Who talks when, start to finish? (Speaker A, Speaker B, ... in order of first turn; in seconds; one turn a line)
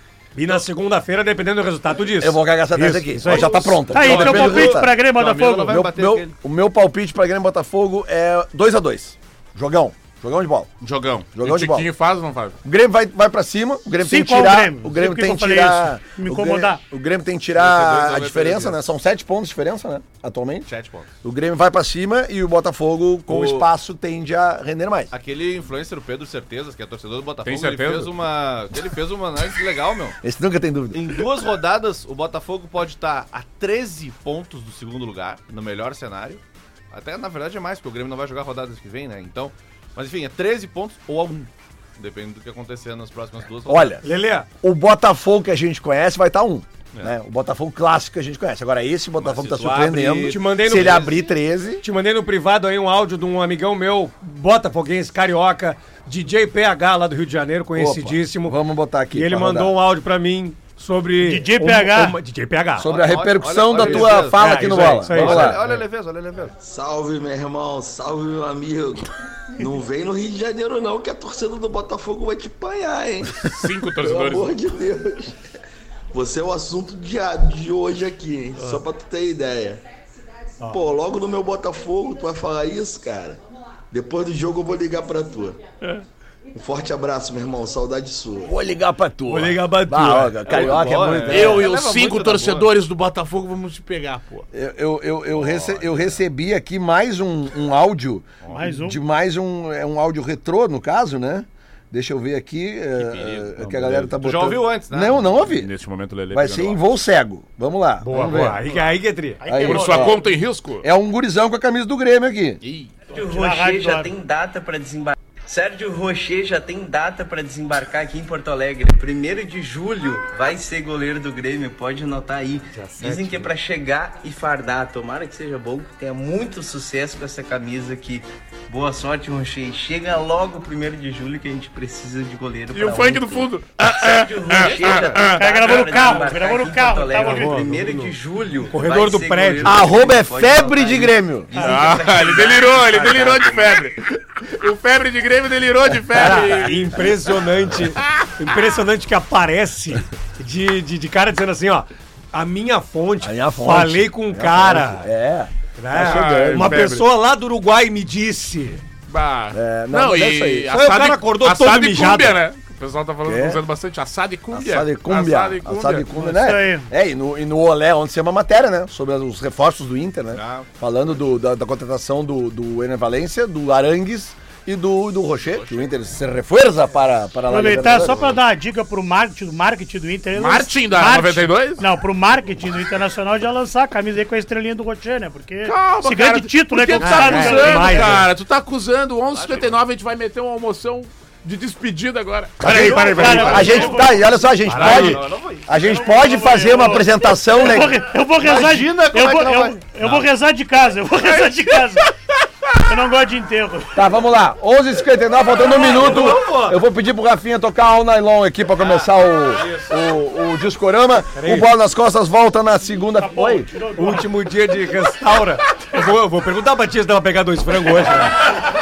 Speaker A: 0.3-3.8
Speaker B: 2.2-5.0
Speaker C: 3.9-5.9
Speaker D: 4.0-6.3
Speaker B: 5.6-10.7
Speaker E: 10.8-12.6
Speaker B: 11.4-11.9
Speaker B: 12.7-20.7
Speaker C: 14.0-16.8
Speaker D: 17.6-18.8
Speaker D: 20.7-21.1
Speaker B: 21.2-25.1
Speaker D: 23.3-23.7
Speaker D: 25.1-30.2
Speaker E: 27.4-28.1
Speaker B: 30.2-31.2
Speaker D: 30.9-44.0
Speaker B: 43.7-44.0
Speaker A: 44.0-44.5
Speaker B: 44.6-51.8
Speaker D: 49.2-51.2
Speaker A: 50.3-51.2
Speaker A: 51.8-62.9
Speaker B: 57.8-59.8
Speaker C: 61.2-62.2
Speaker B: 62.8-65.6
Speaker D: 62.8-66.6
Speaker A: 63.8-65.7
Speaker F: 66.6-75.4
Speaker E: 73.4-74.6
Speaker F: 76.1-79.8
Speaker F: 80.7-85.6
Speaker F: 86.5-88.6
Speaker B: 88.5-91.7
Speaker A: 89.3-90.6
Speaker D: 90.5-92.7
Speaker E: 91.3-94.5
Speaker B: 94.5-105.7
Speaker D: 95.3-96.2
Speaker D: 98.4-98.8
Speaker C: 98.5-99.0
Speaker D: 103.1-103.6
Speaker E: 103.6-104.1
Speaker D: 104.1-105.4
Speaker E: 105.5-106.8
Speaker B: 106.3-108.6
Speaker A: 108.0-109.4
Speaker C: 109.4-110.2
Speaker B: 109.5-110.2
Speaker E: 109.6-110.9
Speaker B: 110.8-112.6
Speaker E: 112.6-113.0
Speaker G: 113.1-143.9
Speaker C: 113.1-114.1
Speaker A: 122.7-123.5
Speaker E: 132.7-136.1
Speaker C: 135.4-137.7
Speaker A: 137.2-138.2
Speaker A: 138.7-139.9
Speaker B: 139.6-141.5
Speaker E: 141.6-147.0
Speaker B: 146.1-146.5
Speaker A: 146.2-155.1
Speaker E: 148.0-148.3
Speaker B: 153.2-156.9
Speaker A: 155.8-158.8
Speaker E: 156.0-157.1
Speaker E: 159.1-166.1
Speaker B: 159.5-160.7
Speaker A: 160.7-162.4
Speaker B: 163.2-163.6
Speaker B: 164.5-178.4
Speaker C: 166.1-166.9
Speaker D: 170.3-170.7
Speaker C: 177.5-188.2
Speaker E: 180.3-181.8
Speaker E: 185.6-192.6
Speaker A: 187.0-188.3
Speaker D: 189.3-189.8
Speaker A: 192.6-193.8
Speaker C: 192.6-194.4
Speaker B: 192.6-198.0
Speaker D: 192.7-194.2
Speaker A: 194.7-195.2
Speaker D: 194.8-195.8
Speaker E: 194.8-195.1
Speaker C: 195.7-202.1
Speaker D: 198.4-200.2
Speaker E: 201.2-202.1
Speaker C: 202.8-204.1
Speaker B: 203.9-213.7
Speaker A: 205.7-206.8
Speaker D: 209.6-209.9
Speaker A: 211.3-211.7
Speaker C: 213.1-214.3
Speaker A: 214.0-218.5